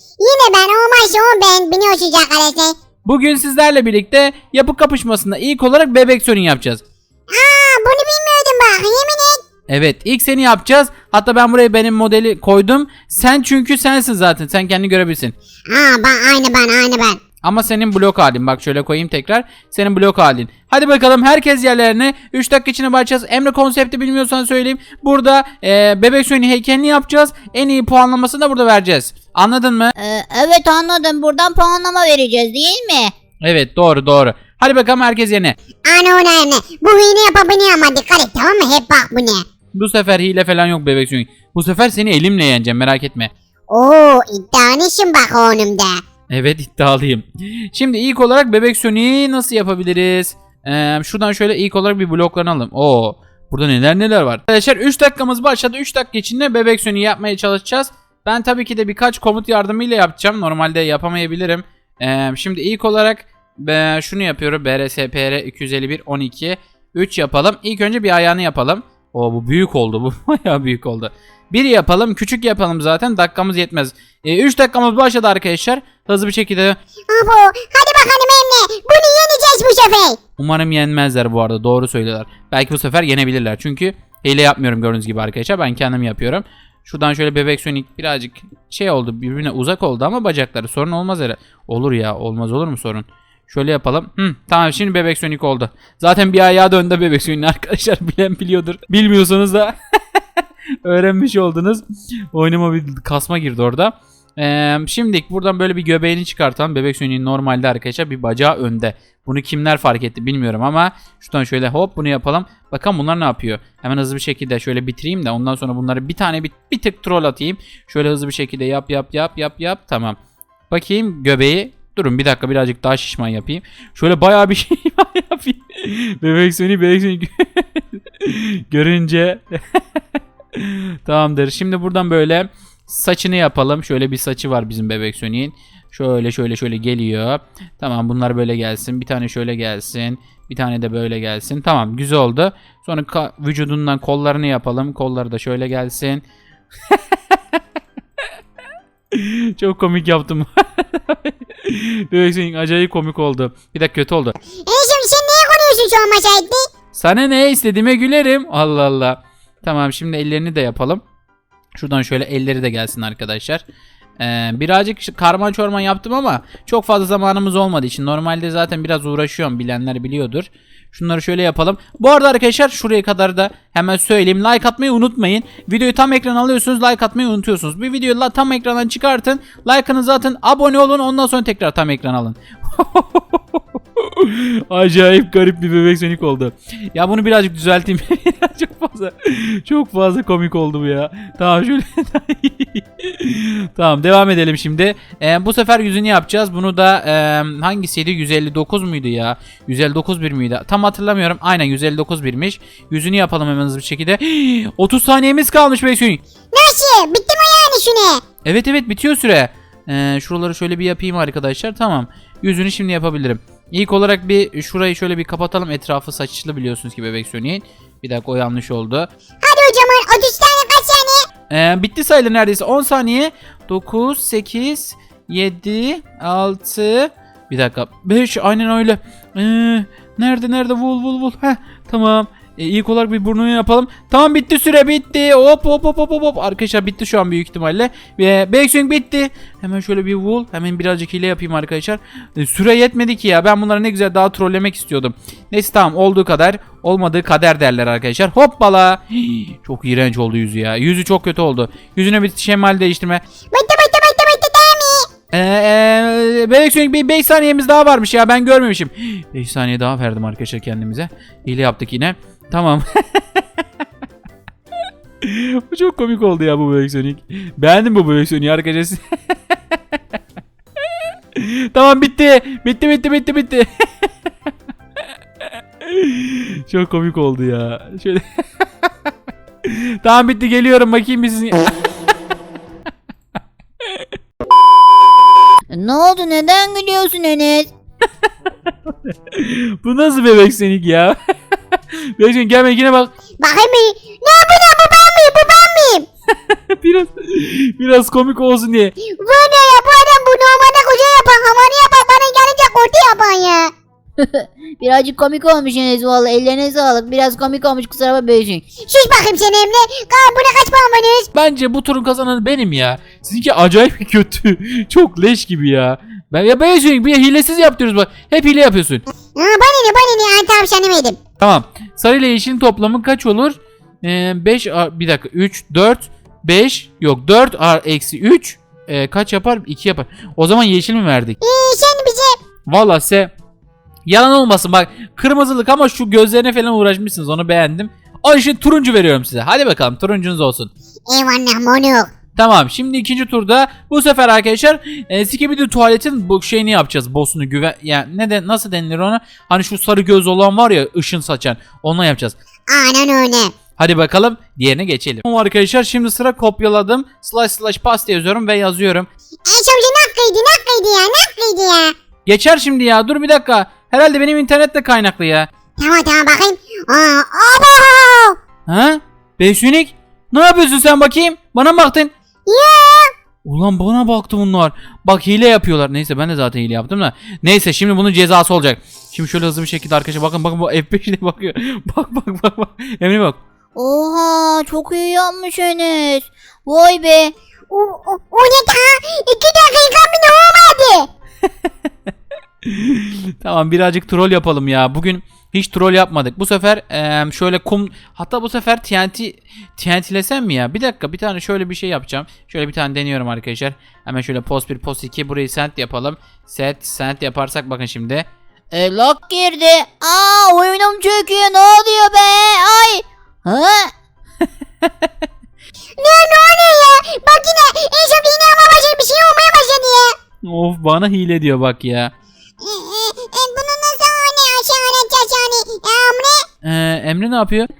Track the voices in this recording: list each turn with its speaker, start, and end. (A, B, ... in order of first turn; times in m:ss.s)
0:00.2-0:02.7 A
0:03.0-0:06.8 B
0:07.3-0:09.4 A
0:09.7-0:15.3 B
0:15.7-0:17.2 A
0:17.4-0:29.9 B
0:30.0-0:33.1 C
0:33.4-0:35.5 B
0:35.8-0:39.4 A
0:39.7-0:43.3 B
0:43.7-0:46.0 A
0:46.3-1:16.8 B
1:17.1-1:20.2 A
1:20.4-1:39.8 B
1:40.8-2:00.2 B
2:00.7-2:09.8 B
2:10.6-2:26.2 B
2:29.1-2:34.3 B
2:34.7-2:36.6 A
2:36.9-2:41.0 B
2:41.8-2:43.6 B
2:44.2-3:26.2 B
3:26.5-3:28.2 A
3:28.4-3:39.1 B
3:39.4-3:41.2 A
3:41.5-4:13.2 B
4:13.5-4:15.1 A
4:15.3-4:23.2 B
4:25.2-4:29.0 B
4:31.4-4:33.7 B
4:35.8-4:38.2 B
4:39.6-4:41.7 B
4:45.7-4:47.7 C
4:49.3-4:51.2 B
4:51.7-4:53.1 B
4:53.4-4:56.1 A
4:56.5-4:58.9 B
4:59.0-5:03.7 A
5:04.2-5:08.6 C
5:08.9-5:11.3 A
5:11.4-5:19.1 B
5:19.4-5:21.2 A
5:21.4-5:31.4 B
5:31.4-5:32.4 A
5:32.7-5:33.3 B
5:34.1-5:40.7 B
5:41.1-5:42.1 A
5:42.4-5:52.4 B
5:52.7-5:53.6 A
5:53.8-5:59.1 B
5:59.5-6:01.9 A
6:02.2-6:05.5 B
6:05.8-6:08.4 A
6:08.7-6:12.1 B
6:12.5-6:13.1 A
6:13.4-6:23.4 B
6:23.8-6:27.3 C
6:27.7-6:31.1 A
6:32.6-6:48.2 B
6:48.7-6:53.9 C
6:54.8-6:55.1 B
6:56.0-7:00.1 A
7:00.4-7:02.1 B
7:02.6-7:06.4 A
7:06.6-7:07.7 B